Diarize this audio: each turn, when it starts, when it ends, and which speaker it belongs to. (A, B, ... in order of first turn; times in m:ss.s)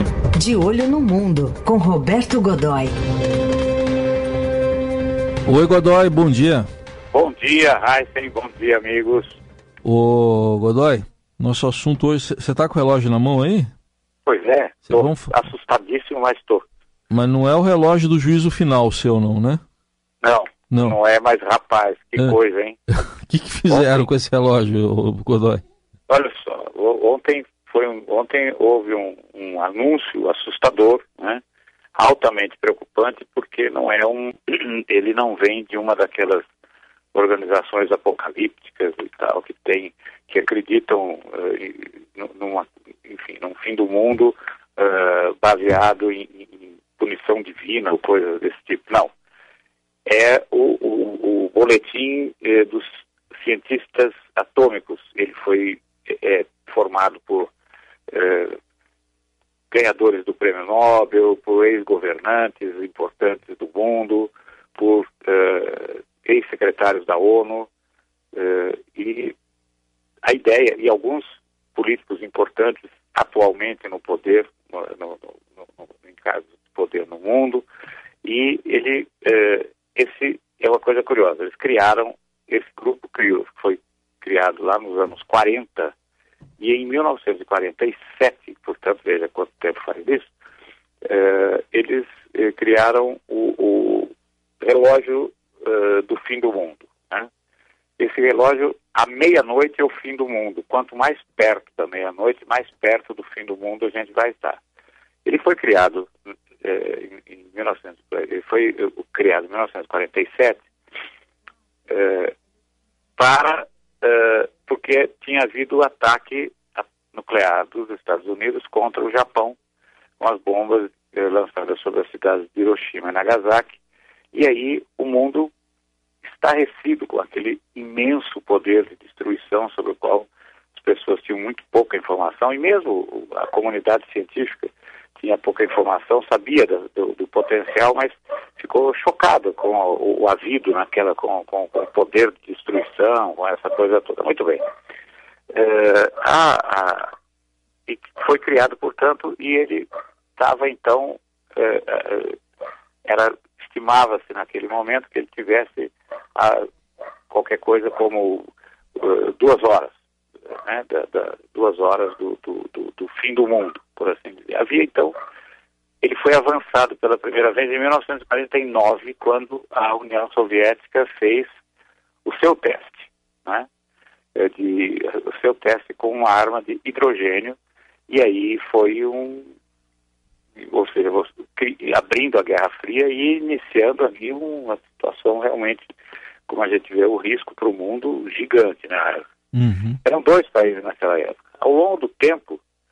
0:00.4-0:02.9 A
0:05.5-0:06.7 B
0:07.1-0:09.4 C
0:09.8-0:13.7 B
0:14.3-0:16.7 C
0:14.9-0:15.3 B
0:17.1-0:19.6 B
0:20.2-0:22.8 C
0:20.7-0:21.0 B
0:22.9-0:25.6 B
0:23.7-0:24.1 C
0:26.1-0:31.4 C
0:32.0-0:36.4 C
0:37.1-0:49.1 C
0:50.1-0:57.5 C
0:58.1-0:58.6 C
0:59.7-1:07.7 C
1:08.3-1:09.4 C
1:10.2-1:17.7 C
1:18.2-1:25.9 C
1:26.6-1:30.3 C
1:31.0-1:37.3 C
1:38.0-1:44.6 C
1:45.2-1:46.1 C
1:46.6-1:50.6 C
1:51.9-1:52.3 C
1:53.2-1:59.6 C
2:00.2-2:03.8 C
2:04.3-2:05.5 C
2:06.2-2:24.6 C
2:25.5-2:27.1 C
2:27.9-2:32.4 C
2:33.0-2:36.6 C
2:37.3-2:40.0 C
2:40.5-2:45.2 C
2:46.0-2:51.5 C
2:52.2-2:53.7 C
2:54.4-2:57.6 C
2:58.1-2:59.5 C
3:00.6-3:05.9 C
3:06.5-3:09.3 C
3:09.5-3:10.0 B
3:10.0-3:12.6 C